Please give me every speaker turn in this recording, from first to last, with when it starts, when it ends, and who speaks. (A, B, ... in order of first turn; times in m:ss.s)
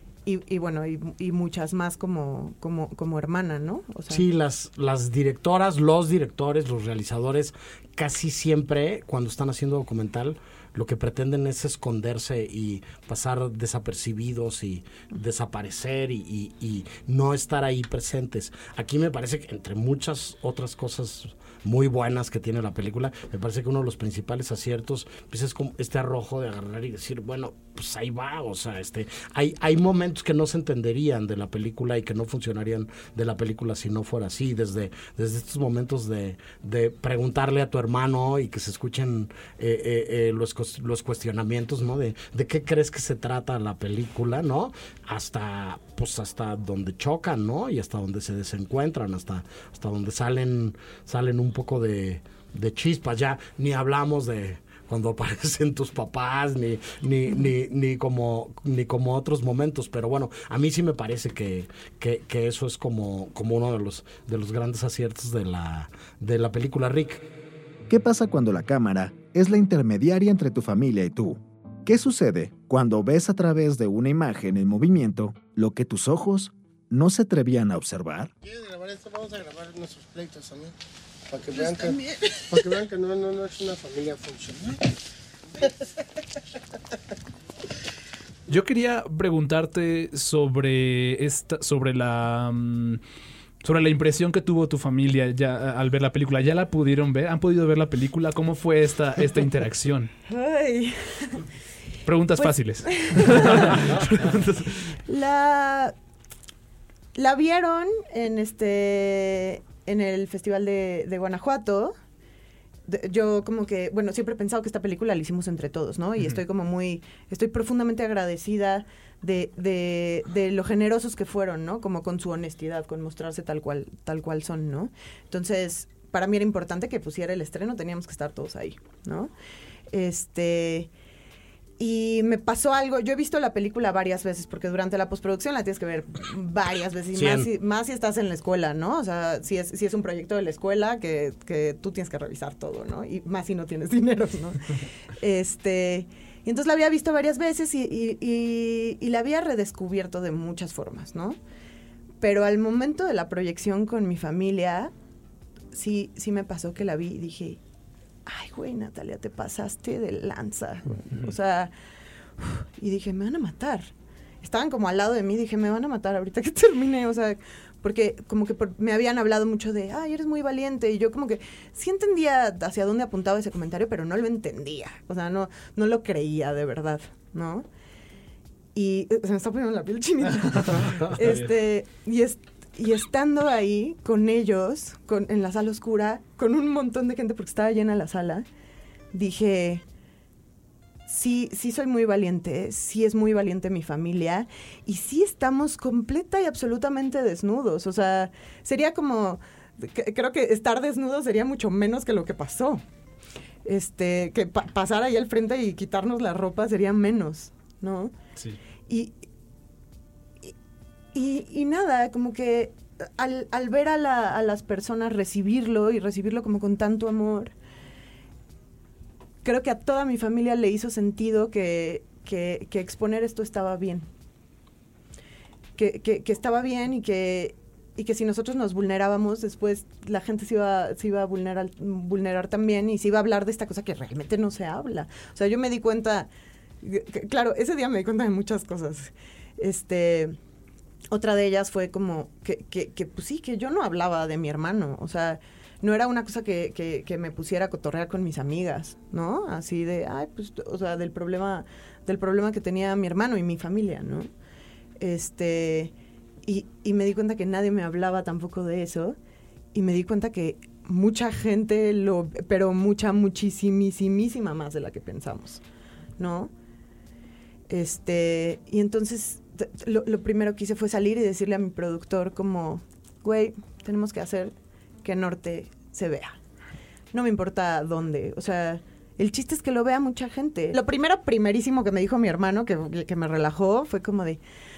0:00.3-0:04.3 A
0:04.1-1:07.2 B
1:07.9-1:18.3 C
1:18.4-1:20.8 D
1:21.3-1:24.8 D
1:28.5-1:33.0 E
1:33.6-1:40.1 E
1:40.3-1:41.4 A
1:42.0-1:44.8 E
1:42.4-1:43.8 A
1:45.1-1:45.9 A
1:47.2-1:52.0 A
1:52.9-2:09.3 A
2:09.9-2:10.9 A
2:11.8-2:31.4 A
2:17.2-2:17.5 B
2:32.2-2:34.9 A
2:35.7-2:37.6 A
2:38.3-2:41.7 A
2:42.4-2:43.9 A
2:44.4-2:57.7 A
2:58.8-3:08.4 A
3:00.6-3:01.5 E
3:09.1-3:09.8 A
3:11.1-3:22.8 A
3:23.6-3:28.1 A
3:28.9-3:29.1 A
3:31.1-3:37.5 A
3:39.4-3:44.1 A
3:45.8-3:56.3 A
3:56.8-4:00.4 A
4:01.1-4:14.3 A
4:15.0-4:15.9 A
4:16.4-4:19.2 A
4:19.7-4:25.6 A
4:26.2-4:26.5 A
4:27.7-4:34.5 A
4:35.0-4:36.4 A
4:37.1-4:44.4 A